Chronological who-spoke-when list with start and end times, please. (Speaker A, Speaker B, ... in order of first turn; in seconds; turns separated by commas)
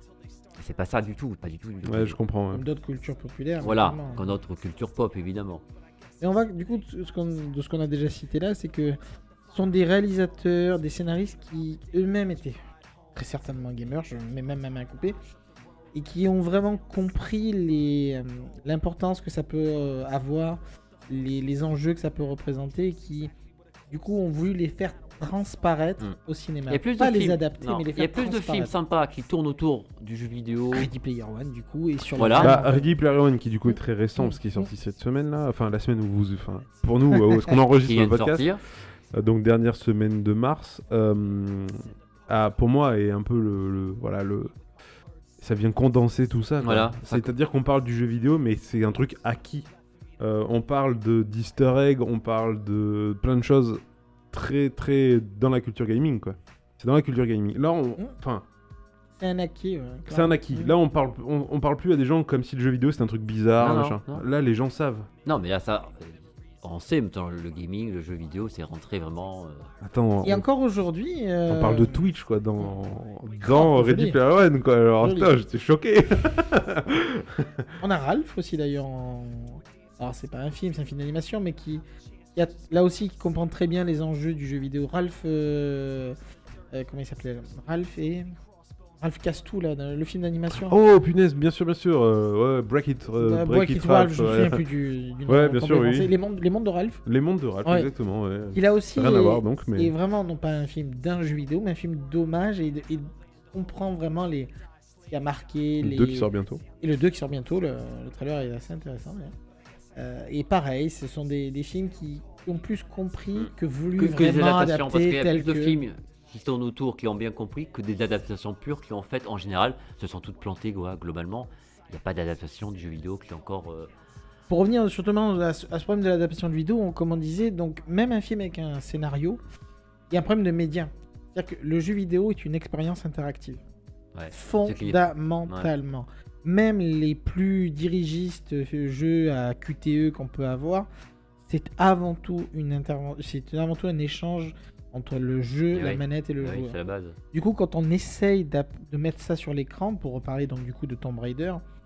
Speaker A: 0.6-2.2, Speaker B: 1.8-2.6, Speaker C: 2.5-4.3, Speaker A: 3.6-5.6, Speaker C: 6.2-9.0, Speaker C: 9.5-12.6, Speaker C: 13.2-15.2, Speaker C: 15.9-23.3, Speaker C: 23.9-28.7, Speaker A: 26.7-30.9, Speaker C: 30.7-32.9, Speaker A: 32.2-32.6, Speaker B: 32.4-38.6, Speaker C: 34.2-34.6, Speaker A: 37.8-38.6, Speaker B: 39.1-44.5, Speaker B: 45.4-58.5, Speaker A: 46.6-47.3, Speaker C: 59.2-60.7, Speaker B: 60.1-65.1, Speaker A: 63.6-64.2, Speaker A: 65.2-69.7, Speaker B: 69.8-70.5, Speaker C: 70.2-72.0, Speaker B: 71.5-77.7, Speaker C: 73.5-74.2, Speaker C: 75.0-75.4, Speaker C: 77.8-81.8, Speaker C: 82.4-86.2, Speaker C: 86.7-88.3, Speaker C: 89.0-90.8, Speaker B: 90.5-94.6, Speaker C: 93.2-97.0, Speaker B: 95.3-96.1, Speaker B: 97.0-99.9, Speaker C: 98.5-104.5, Speaker C: 105.1-106.3, Speaker B: 105.8-106.6, Speaker C: 106.8-109.3, Speaker C: 110.0-115.8, Speaker A: 113.3-123.9, Speaker C: 124.5-129.4, Speaker C: 130.1-133.6, Speaker A: 134.2-135.7, Speaker C: 134.3-140.9, Speaker C: 141.5-146.8, Speaker A: 145.7-147.2, Speaker C: 147.3-151.6